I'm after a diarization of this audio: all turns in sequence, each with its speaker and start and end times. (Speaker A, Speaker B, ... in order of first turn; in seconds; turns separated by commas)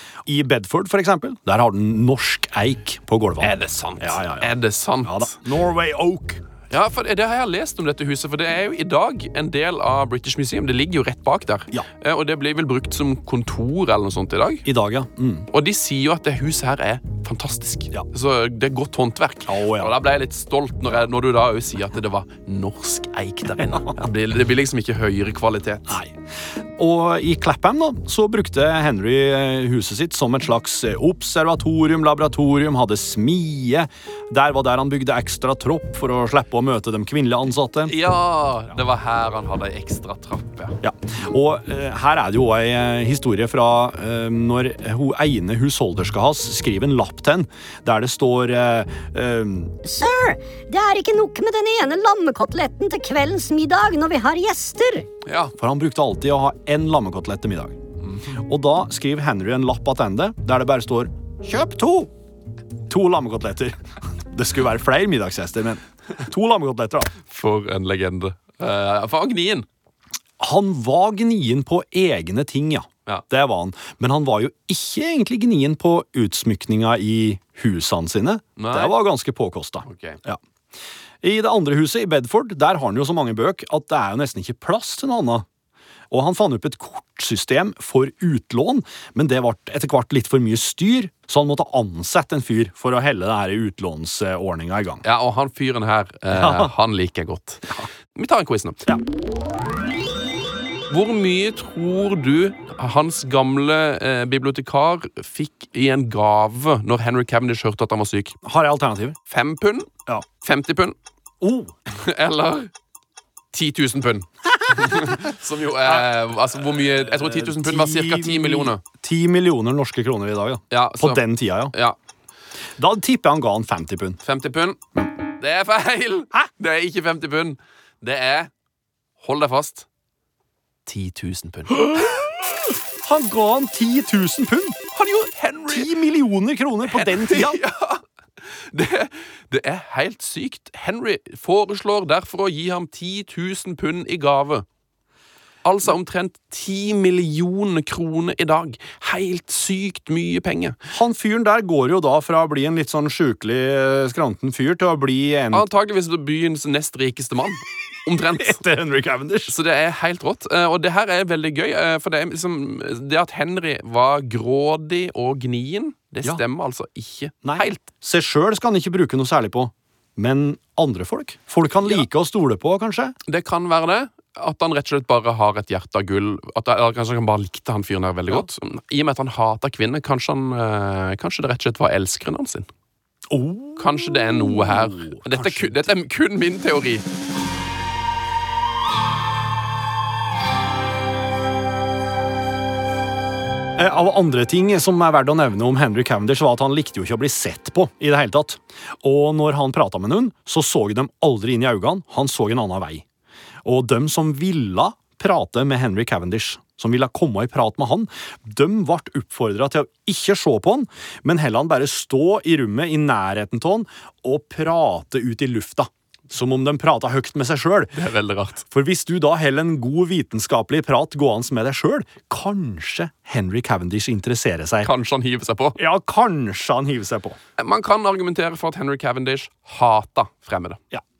Speaker A: 0.2-4.5, Speaker B: 3.4-5.4, Speaker A: 5.0-6.4, Speaker B: 6.7-14.7, Speaker A: 14.6-15.5, Speaker B: 15.5-26.0, Speaker A: 19.5-19.9, Speaker A: 25.9-26.1, Speaker A: 26.8-37.9, Speaker B: 37.9-40.8, Speaker A: 40.8-49.8, Speaker C: 49.8-55.1, Speaker B: 55.2-55.5, Speaker A: 55.6-57.8, Speaker A: 58.3-62.1, Speaker A: 62.9-67.1, Speaker B: 67.2-69.7, Speaker A: 70.4-80.4, Speaker B: 78.6-78.9, Speaker B: 79.8-80.2, Speaker A: 81.2-85.5, Speaker A: 86.1-95.0, Speaker B: 95.0-98.9, Speaker A: 96.3-96.7, Speaker B: 100.9-108.4, Speaker A: 108.4-109.2, Speaker B: 109.3-111.0, Speaker A: 111.4-111.7, Speaker B: 111.9-112.7, Speaker B: 113.5-118.8, Speaker A: 114.8-115.2, Speaker A: 117.0-121.7, Speaker B: 120.7-122.0, Speaker A: 122.8-124.2, Speaker B: 124.2-128.5, Speaker B: 129.2-129.9, Speaker B: 130.8-132.2, Speaker A: 131.9-132.2, Speaker A: 133.0-134.8, Speaker B: 134.9-135.9, Speaker A: 135.7-137.6, Speaker B: 136.8-144.7, Speaker B: 145.6-150.8, Speaker A: 150.9-155.7, Speaker B: 155.5-158.6, Speaker A: 158.4-159.5, Speaker B: 159.5-167.9, Speaker A: 167.4-173.2, Speaker B: 173.2-182.7, Speaker A: 183.3-185.8, Speaker B: 183.8-187.1, Speaker A: 193.8-203.0, Speaker A: 203.6-217.9, Speaker B: 217.9-218.7, Speaker A: 218.7-224.9, Speaker B: 224.8-225.8, Speaker A: 225.8-227.4, Speaker B: 227.6-230.8